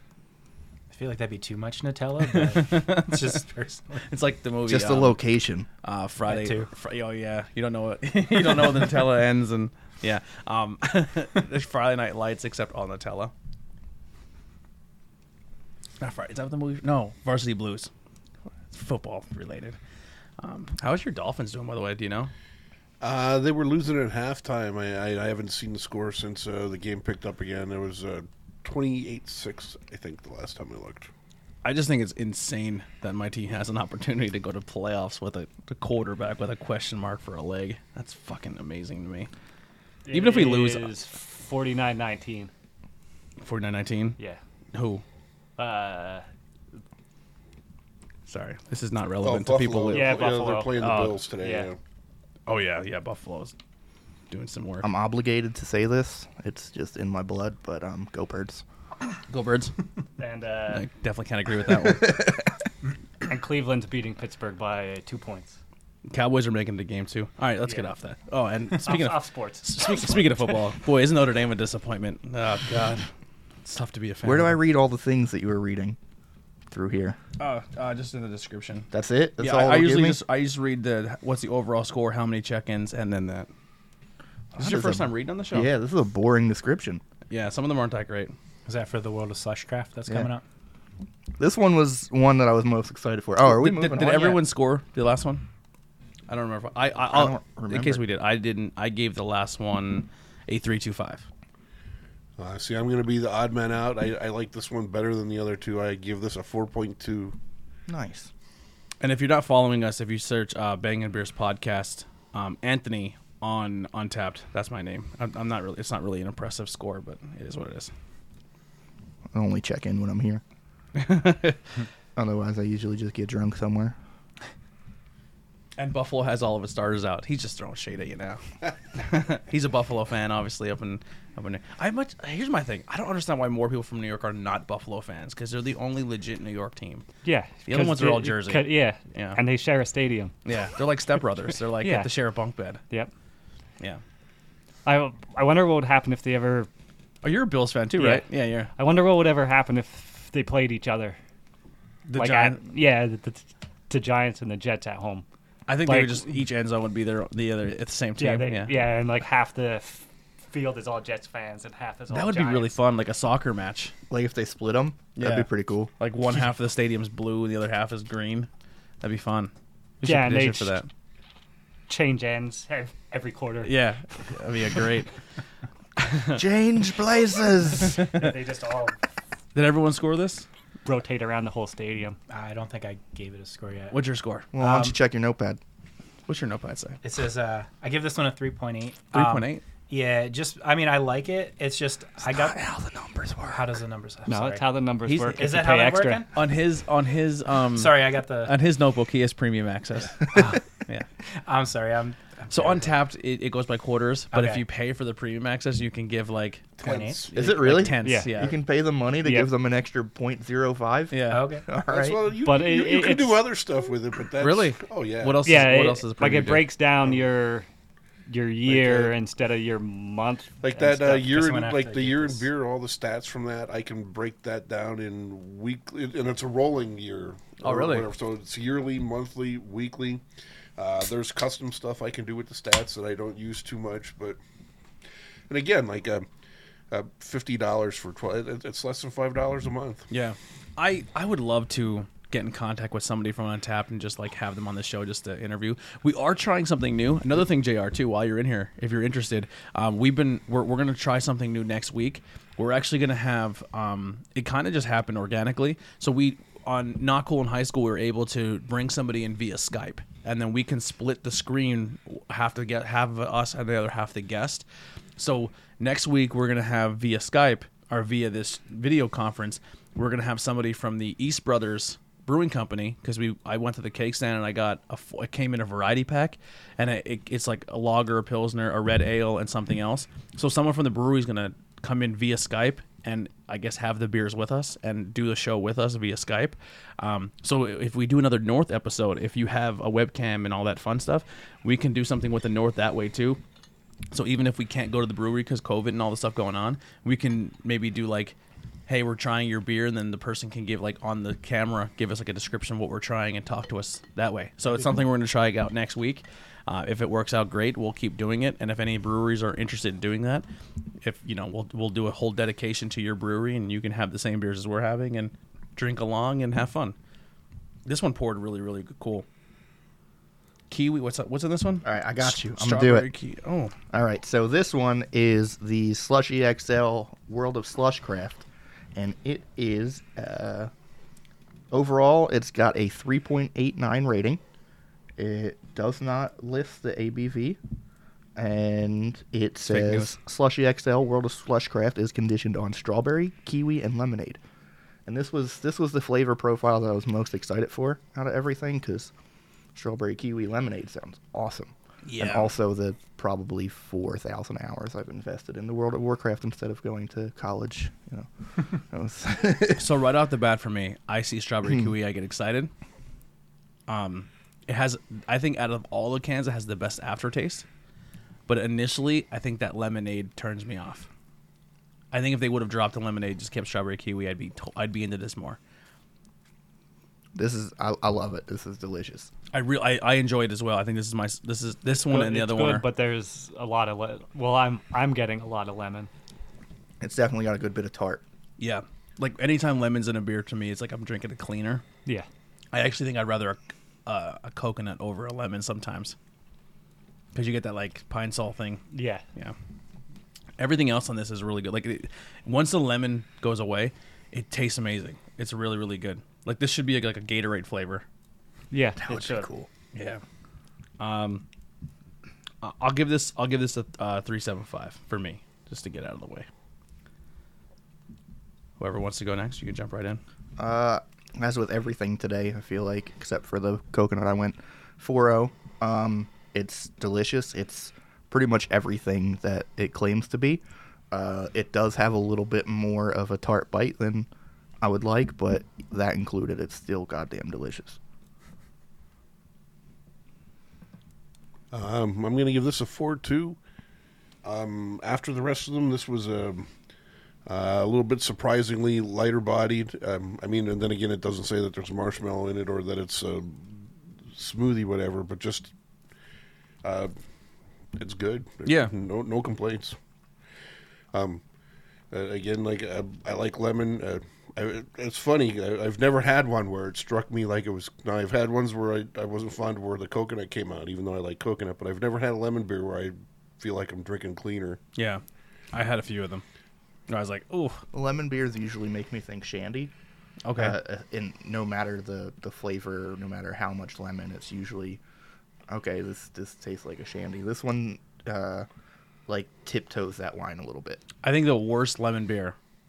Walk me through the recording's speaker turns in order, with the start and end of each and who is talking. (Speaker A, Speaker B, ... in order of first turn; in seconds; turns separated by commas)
Speaker A: 0.9-4.1, Speaker B: 2.3-3.5, Speaker B: 4.0-5.2, Speaker C: 4.7-5.7, Speaker B: 5.8-13.3, Speaker A: 6.2-6.7, Speaker B: 16.0-17.9, Speaker B: 18.7-19.8, Speaker B: 20.4-22.3, Speaker D: 23.0-31.1, Speaker B: 31.6-39.3, Speaker E: 40.0-42.5, Speaker B: 40.1-40.9, Speaker B: 43.4-44.2, Speaker B: 44.7-45.0, Speaker E: 45.6-46.2, Speaker B: 48.3-50.2, Speaker D: 49.2-51.8, Speaker E: 49.9-50.8, Speaker B: 50.8-51.2, Speaker E: 51.4-51.7, Speaker B: 52.5-53.5, Speaker B: 54.3-54.9, Speaker C: 54.8-58.6, Speaker B: 59.3-59.7, Speaker E: 60.2-60.9, Speaker B: 60.7-62.3, Speaker C: 61.8-62.4, Speaker E: 63.2-65.6, Speaker B: 66.1-73.1, Speaker E: 68.8-70.2, Speaker B: 73.6-74.6, Speaker C: 74.2-76.0, Speaker C: 76.7-77.2, Speaker B: 77.4-83.5, Speaker C: 78.9-80.2, Speaker B: 84.5-85.7, Speaker C: 84.6-87.0, Speaker B: 87.3-88.3, Speaker A: 88.7-90.4, Speaker C: 91.4-94.4, Speaker B: 93.4-95.4, Speaker B: 96.3-101.3, Speaker C: 97.1-98.0, Speaker D: 102.4-107.3, Speaker C: 107.9-108.3, Speaker B: 109.0-117.9, Speaker C: 119.3-120.4, Speaker B: 121.0-121.6, Speaker C: 122.2-124.0, Speaker B: 125.8-137.1, Speaker E: 137.2-140.3, Speaker B: 137.7-139.4, Speaker B: 140.4-142.8, Speaker E: 141.8-142.1, Speaker E: 144.8-146.7, Speaker B: 147.2-148.7, Speaker E: 147.9-151.2, Speaker B: 152.1-152.6, Speaker E: 152.1-155.2, Speaker B: 155.7-158.7, Speaker E: 155.8-156.2, Speaker E: 158.2-162.8, Speaker B: 162.1-163.9, Speaker C: 164.1-165.9, Speaker B: 165.2-168.5, Speaker B: 169.0-170.9, Speaker E: 170.0-170.8, Speaker E: 171.9-173.8, Speaker B: 173.6-175.1, Speaker B: 176.0-176.4, Speaker C: 176.3-178.2, Speaker B: 177.8-178.3, Speaker E: 177.9-179.0, Speaker B: 179.5-180.4, Speaker E: 180.8-182.2, Speaker A: 182.3-184.0, Speaker B: 183.9-184.5, Speaker C: 184.5-185.6, Speaker A: 184.6-185.0, Speaker B: 186.3-187.0, Speaker A: 187.0-192.6, Speaker B: 189.1-189.6, Speaker C: 192.2-193.6, Speaker A: 193.5-194.6, Speaker E: 194.3-196.2, Speaker B: 195.0-195.5, Speaker A: 195.3-196.3, Speaker B: 196.3-201.1, Speaker A: 197.8-198.5, Speaker A: 200.3-200.6, Speaker A: 201.2-202.9, Speaker B: 202.5-208.5, Speaker A: 204.3-204.6, Speaker A: 206.8-207.2, Speaker D: 206.8-207.3, Speaker C: 207.3-212.2, Speaker E: 208.0-208.3, Speaker E: 209.2-209.5, Speaker B: 211.1-211.5, Speaker A: 211.3-211.7, Speaker D: 211.8-215.5, Speaker E: 212.4-213.4, Speaker B: 214.4-216.7, Speaker E: 215.4-217.7, Speaker E: 218.3-220.7, Speaker D: 218.7-219.1, Speaker D: 220.6-230.2, Speaker A: 220.8-222.5, Speaker B: 227.6-228.1, Speaker D: 230.8-234.4, Speaker D: 235.5-236.3, Speaker D: 236.9-240.1, Speaker B: 240.1-264.6, Speaker B: 265.2-293.4, Speaker B: 294.1-298.4, Speaker B: 298.9-310.4, Speaker B: 311.0-316.9, Speaker B: 317.9-319.2, Speaker B: 320.7-323.7, Speaker C: 321.8-323.1, Speaker C: 323.9-330.7, Speaker C: 331.7-334.4, Speaker C: 335.2-337.6, Speaker C: 338.4-344.4, Speaker B: 339.6-340.2, Speaker C: 345.1-349.1, Speaker C: 349.8-359.9, Speaker B: 352.0-352.5, Speaker B: 359.8-362.7, Speaker B: 363.9-367.6, Speaker B: 368.5-371.1, Speaker B: 372.1-375.6, Speaker C: 377.4-379.3, Speaker B: 379.5-382.9, Speaker E: 382.0-386.1, Speaker C: 387.0-388.2, Speaker B: 388.6-391.8, Speaker B: 392.7-396.1, Speaker B: 397.3-398.8, Speaker E: 398.9-399.2, Speaker B: 400.6-408.0, Speaker E: 408.7-409.5, Speaker C: 409.0-409.7, Speaker B: 409.9-410.2, Speaker B: 411.0-411.4, Speaker B: 412.6-416.5, Speaker B: 418.8-420.2, Speaker C: 420.6-434.3, Speaker C: 434.8-438.0, Speaker D: 441.7-443.6, Speaker D: 444.4-446.7, Speaker D: 447.4-455.7, Speaker D: 456.8-457.1, Speaker D: 457.9-460.0, Speaker B: 458.6-458.9, Speaker D: 461.1-461.4, Speaker D: 462.1-474.8, Speaker B: 474.9-476.4, Speaker B: 477.1-477.8, Speaker C: 477.9-479.9, Speaker B: 480.4-480.8, Speaker C: 480.5-485.0, Speaker C: 485.7-488.7, Speaker C: 489.3-491.0, Speaker B: 491.2-492.6